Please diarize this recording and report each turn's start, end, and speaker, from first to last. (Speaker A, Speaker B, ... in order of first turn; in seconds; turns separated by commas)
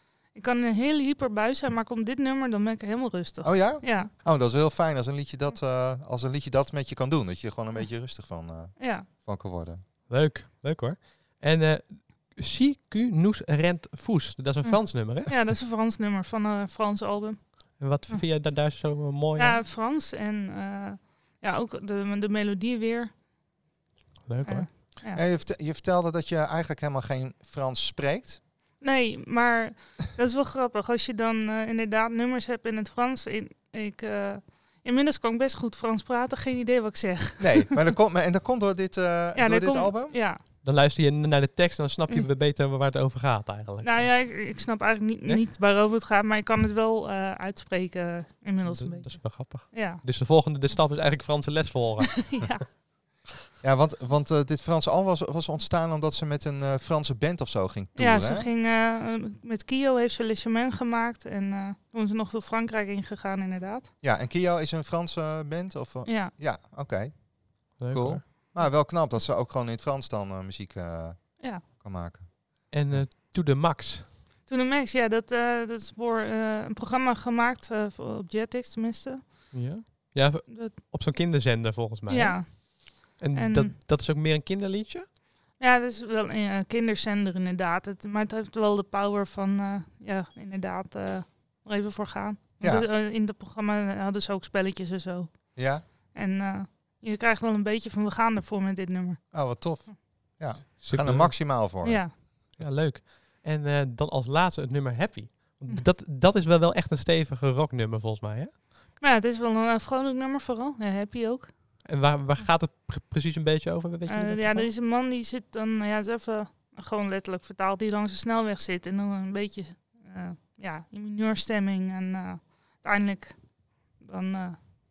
Speaker A: 0.3-4.1, Speaker B: 3.4-9.8, Speaker A: 8.8-9.1, Speaker C: 10.1-15.4, Speaker A: 14.6-18.2, Speaker C: 17.8-19.6, Speaker A: 19.4-23.2, Speaker C: 24.2-24.7, Speaker A: 24.4-25.2, Speaker B: 25.1-28.4, Speaker A: 28.8-37.8, Speaker B: 37.4-40.2, Speaker A: 39.3-40.4, Speaker C: 40.6-44.3, Speaker A: 43.8-50.1, Speaker C: 48.6-52.4, Speaker A: 52.1-52.7, Speaker B: 53.6-58.5, Speaker A: 58.0-63.9, Speaker B: 64.0-73.1, Speaker A: 66.1-66.3, Speaker C: 67.8-68.2, Speaker C: 72.7-74.1, Speaker A: 74.5-79.8, Speaker C: 79.5-85.1, Speaker A: 80.5-80.8, Speaker A: 82.1-83.8, Speaker A: 85.6-99.9, Speaker B: 92.6-92.8, Speaker B: 95.6-95.8, Speaker B: 99.3-102.1, Speaker C: 100.8-101.4, Speaker A: 101.8-102.1, Speaker C: 102.5-108.5, Speaker A: 109.0-111.8, Speaker C: 111.8-114.7, Speaker A: 114.1-124.6